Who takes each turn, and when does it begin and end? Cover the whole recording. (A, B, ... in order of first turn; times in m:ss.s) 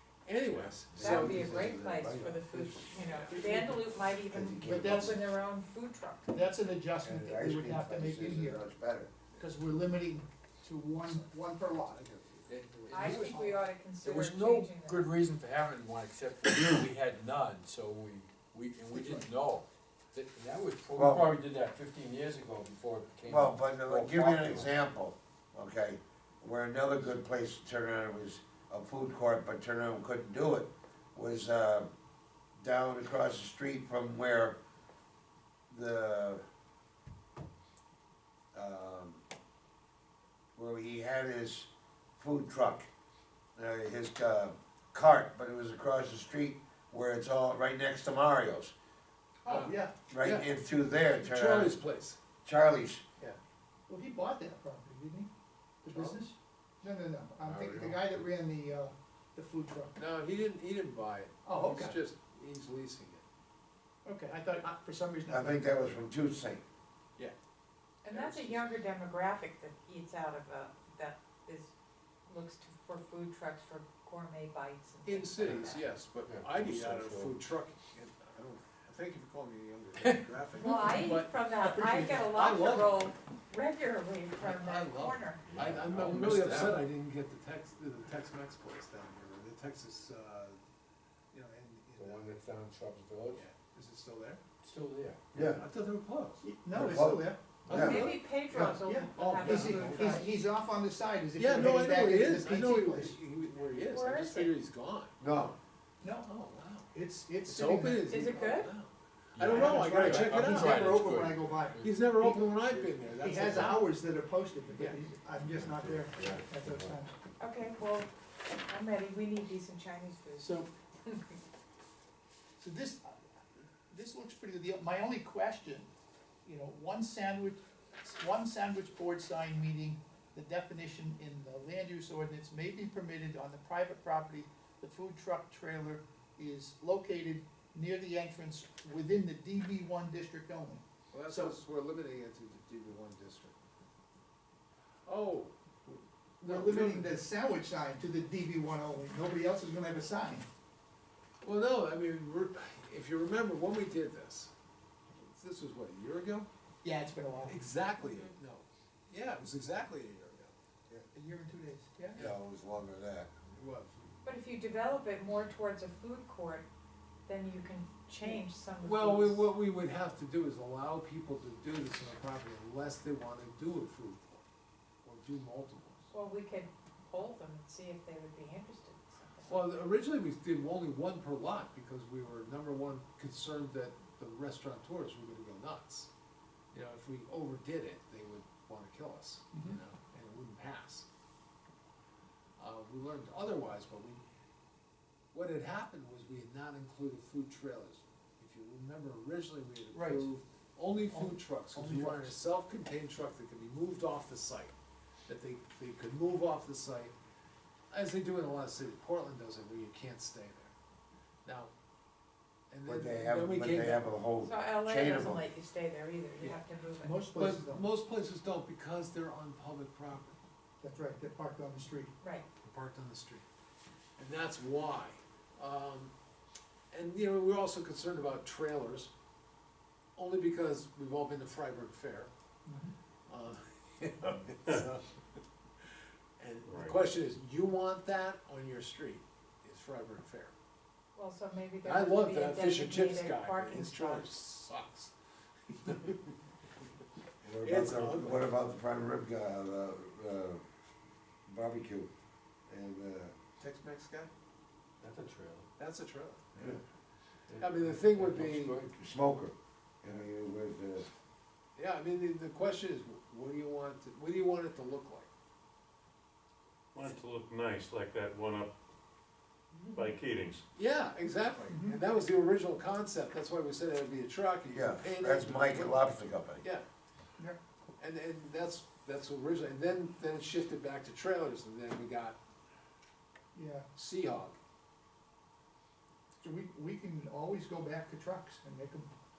0:00.2-0:01.5 A
0:00.9-0:02.8 B
0:01.0-0:06.4 C
0:03.0-0:03.4 A
0:03.3-0:03.8 D
0:04.3-0:05.2 B
0:04.6-0:05.2 D
0:06.3-0:08.6 D
0:07.0-0:09.1 B
0:09.4-0:12.0 D
0:11.9-0:13.3 A
0:12.5-0:13.5 E
0:12.9-0:15.1 C
0:13.3-0:13.6 D
0:14.0-0:24.8 E
0:18.9-0:19.2 D
0:21.0-0:21.3 B
0:23.3-0:31.9 B
0:32.6-0:34.6 B
0:35.7-0:36.4 B
0:38.5-0:39.2 B
0:40.6-0:42.9 B
0:43.6-0:48.7 B
0:49.4-0:50.0 D
0:49.5-0:50.5 A
0:50.1-0:51.8 B
0:51.2-0:52.2 A
0:52.4-0:53.0 B
0:53.9-0:55.3 D
0:55.8-0:59.9 D
0:55.9-0:56.2 A
0:57.4-0:58.0 E
1:00.0-1:03.2 A
1:01.4-1:02.0 D
1:04.0-1:05.6 D
1:05.3-1:06.6 B
1:08.0-1:11.7 C
1:08.1-1:08.7 A
1:12.3-1:15.9 C
1:15.0-1:23.1 A
1:16.3-1:17.4 E
1:20.6-1:25.5 C
1:24.4-1:30.6 A
1:25.5-1:26.9 E
1:31.3-1:32.3 A
1:32.0-1:33.4 E
1:33.3-1:34.4 A
1:34.6-1:35.2 E
1:35.3-1:35.6 B
1:35.3-1:36.4 A
1:36.4-1:43.2 D
1:36.7-1:38.2 B
1:37.6-1:38.2 A
1:37.7-1:40.3 C
1:39.2-1:40.2 A
1:41.4-1:45.3 A
1:43.8-1:44.5 C
1:45.2-1:45.6 B
1:46.0-1:46.3 D
1:46.2-1:46.9 A
1:46.9-1:48.3 D
1:47.5-1:51.1 A
1:48.1-1:48.7 C
1:49.4-1:53.8 E
1:49.4-1:52.5 D
1:51.8-1:54.0 A
1:53.2-1:57.2 D
1:54.7-1:55.0 A
1:55.5-1:57.0 E
1:57.4-2:01.2 C
2:00.4-2:00.7 D
2:02.6-2:03.2 D
2:03.9-2:05.9 D
2:06.4-2:21.6 D
2:21.1-2:23.6 A
2:25.1-2:25.5 A
2:25.9-2:30.5 D
2:26.4-2:27.2 A
2:31.4-2:34.5 A
2:35.1-2:36.5 A
2:36.8-2:37.6 D
2:37.4-2:40.5 A
2:41.1-2:42.3 D
2:42.2-2:43.3 B
2:43.5-2:44.2 A
2:44.2-2:46.7 C
2:47.3-2:49.5 C
2:48.2-2:54.4 A
2:55.0-2:56.1 A
2:56.1-2:59.7 C
2:59.5-3:06.1 A
3:06.7-3:11.1 A
3:09.5-3:09.8 D
3:12.6-3:14.2 A
3:15.3-3:24.7 A
3:19.9-3:20.3 D
3:21.1-3:22.4 D
3:25.3-3:27.1 A
3:27.9-3:30.7 A
3:31.4-3:31.7 A
3:32.7-3:34.1 A
3:32.9-3:35.5 B
3:34.4-3:37.2 C
3:37.0-3:37.9 D
3:37.3-3:40.4 A
3:40.8-3:42.1 D
3:42.2-3:42.4 C
3:42.6-3:43.4 A
3:44.2-3:46.1 A
3:46.9-3:49.1 A
3:50.2-3:52.3 A
3:52.6-3:52.9 D
3:53.3-3:55.4 A
3:56.4-4:00.5 A
3:56.7-3:56.9 F
4:01.2-4:04.3 C
4:01.8-4:05.1 A
4:05.7-4:06.3 A
4:07.4-4:08.6 A
4:07.4-4:10.6 B
4:11.5-4:12.1 B
4:12.7-4:13.4 B
4:13.6-4:14.3 A
4:15.0-4:15.7 E
4:15.8-4:16.6 A
4:16.6-4:16.8 B
4:17.5-4:18.9 E
4:17.6-4:18.8 A
4:18.9-4:21.1 B
4:21.8-4:25.3 A
4:26.9-4:28.7 F
4:29.9-4:30.6 F
4:30.8-4:36.8 A
4:31.7-4:32.0 D
4:34.7-4:36.6 B
4:38.0-4:42.4 A
4:43.5-4:43.9 D
4:44.0-4:44.6 A
4:46.4-4:49.1 D